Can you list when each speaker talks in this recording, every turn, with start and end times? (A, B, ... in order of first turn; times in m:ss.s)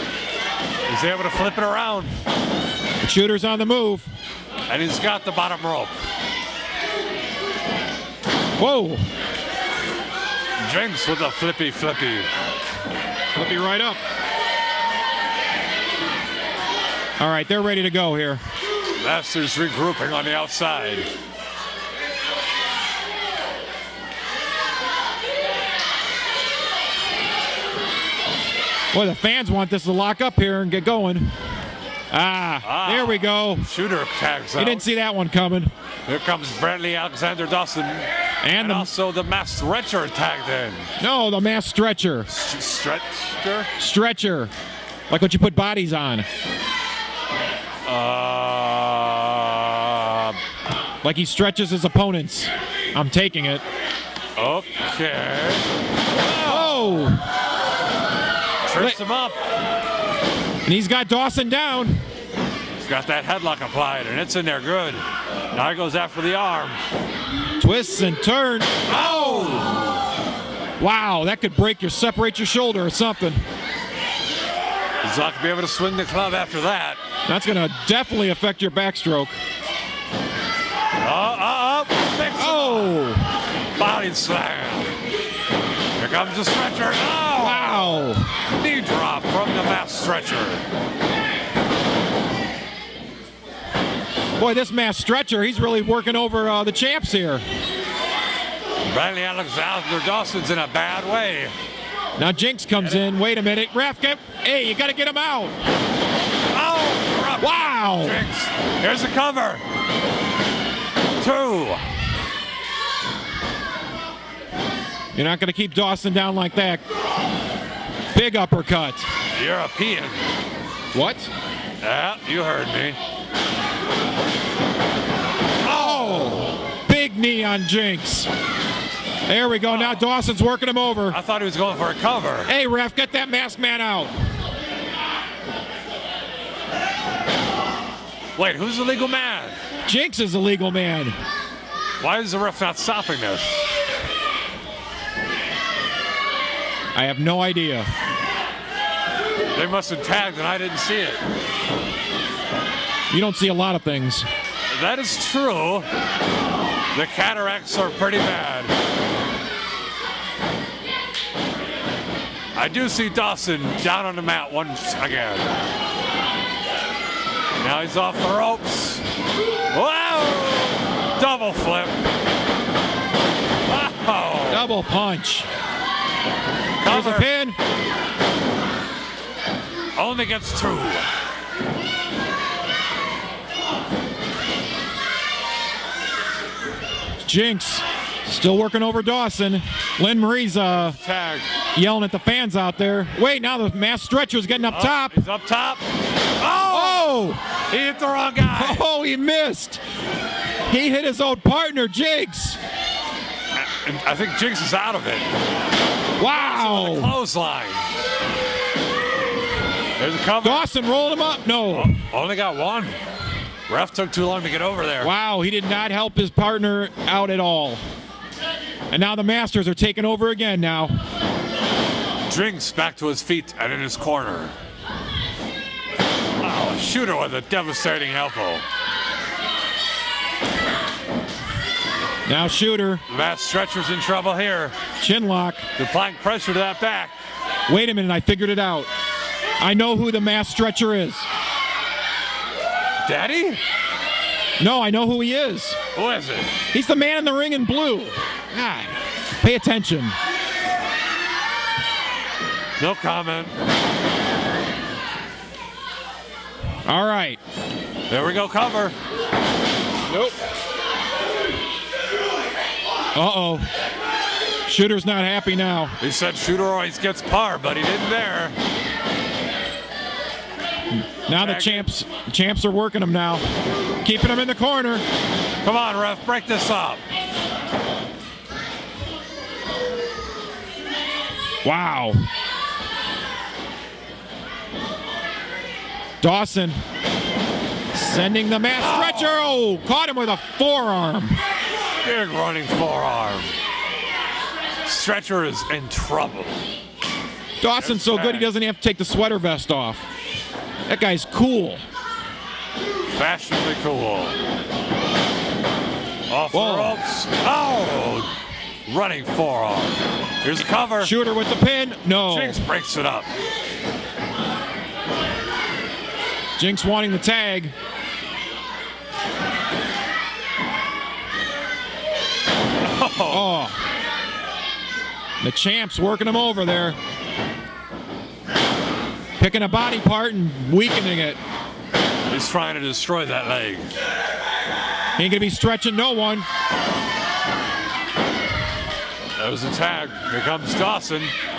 0:00.9-0:02.1 A
0:03.0-0:04.1 B
0:04.7-0:05.9 A
0:08.6-0:09.0 B
0:10.6-0:12.3 A
0:13.3-0:14.0 B
0:17.2-0:18.4 B
0:19.0-0:21.1 A
0:28.9-0:31.3 B
0:32.1-0:33.6 B
0:32.6-0:34.8 A
0:34.6-0:35.7 B
0:36.0-0:40.8 A
0:38.4-0:38.9 B
0:41.0-0:42.3 B
0:42.3-0:43.7 A
0:43.8-0:44.5 B
0:45.1-0:46.2 B
0:47.8-0:50.4 A
0:51.0-0:53.6 B
0:54.4-0:57.1 A
0:56.4-0:57.2 B
0:58.6-0:59.4 A
1:00.6-1:02.0 B
1:02.8-1:06.8 A
1:07.6-1:09.6 B
1:08.9-1:10.0 A
1:10.8-1:13.4 B
1:15.0-1:17.0 A
1:17.3-1:19.4 B
1:21.0-1:23.0 A
1:22.4-1:23.2 B
1:23.8-1:24.9 A
1:26.0-1:28.0 A
1:27.4-1:28.3 B
1:28.5-1:30.6 A
1:34.4-1:37.4 B
1:38.9-1:41.5 A
1:42.2-1:45.5 B
1:46.5-1:49.6 A
1:47.4-1:48.2 B
1:51.2-1:51.8 A
1:55.1-1:56.8 B
1:58.1-1:59.0 B
1:59.3-2:00.3 A
2:00.9-2:01.3 B
2:01.8-2:03.0 A
2:05.6-2:08.3 B
2:05.7-2:06.4 A
2:09.3-2:11.2 B
2:09.7-2:10.0 A
2:11.1-2:12.5 A
2:12.5-2:14.1 B
2:18.4-2:19.6 A
2:19.8-2:21.2 B
2:22.0-2:23.6 A
2:26.9-2:27.9 B
2:29.5-2:31.2 A
2:33.1-2:34.3 B
2:34.7-2:35.9 A
2:36.9-2:38.7 A
2:42.6-2:45.5 A
2:47.6-2:49.0 A
2:49.7-2:52.0 A
2:53.6-2:54.7 A
2:54.5-2:55.5 B
2:56.8-2:57.3 A
2:56.8-2:57.6 B
3:00.0-3:01.1 A
3:07.2-3:11.0 B
3:10.7-3:11.5 A
3:11.7-3:15.2 B
3:14.7-3:15.8 A
3:16.4-3:17.1 A
3:16.6-3:17.4 B
3:17.7-3:18.8 A
3:18.5-3:19.8 B
3:20.7-3:22.6 B
3:23.5-3:25.2 A
3:26.2-3:27.1 B
3:26.3-3:27.8 A
3:30.0-3:30.7 A
3:30.4-3:32.0 B
3:31.7-3:33.0 A
3:33.7-3:35.1 A
3:35.0-3:37.8 B
3:38.9-3:40.9 B
3:42.3-3:44.5 A
3:46.4-3:48.6 A
3:52.2-3:53.0 B
3:53.1-3:54.8 A
3:55.0-3:55.6 B
3:55.8-3:57.1 A
3:57.7-3:58.9 B
3:59.6-4:01.2 B
4:03.0-4:03.6 A
4:04.6-4:05.8 B
4:05.9-4:06.5 A
4:06.7-4:10.2 B
4:12.8-4:13.5 A
4:16.8-4:17.4 B
4:18.1-4:18.9 A
4:20.1-4:20.4 B
4:23.1-4:23.6 B
4:24.6-4:25.9 B
4:26.0-4:28.5 A
4:31.3-4:33.4 B
4:31.4-4:31.9 A
4:34.0-4:35.0 B
4:35.6-4:37.0 A
4:41.6-4:42.2 B
4:46.2-4:46.8 B
4:47.9-4:51.4 B
4:48.7-4:49.4 A
4:52.0-4:53.5 A
4:54.8-4:56.6 A
4:57.6-5:00.0 B
4:57.8-4:58.5 A
5:00.9-5:01.8 B
5:03.1-5:04.4 A
5:06.3-5:08.3 A
5:06.5-5:07.0 B
5:08.9-5:11.1 A
5:11.0-5:12.6 B
5:12.2-5:13.3 A
5:16.6-5:17.7 B
5:22.8-5:23.6 A
5:23.3-5:23.8 B
5:25.4-5:27.0 B
5:29.4-5:31.4 B
5:32.3-5:33.9 A
5:35.2-5:36.4 B
5:39.4-5:41.3 A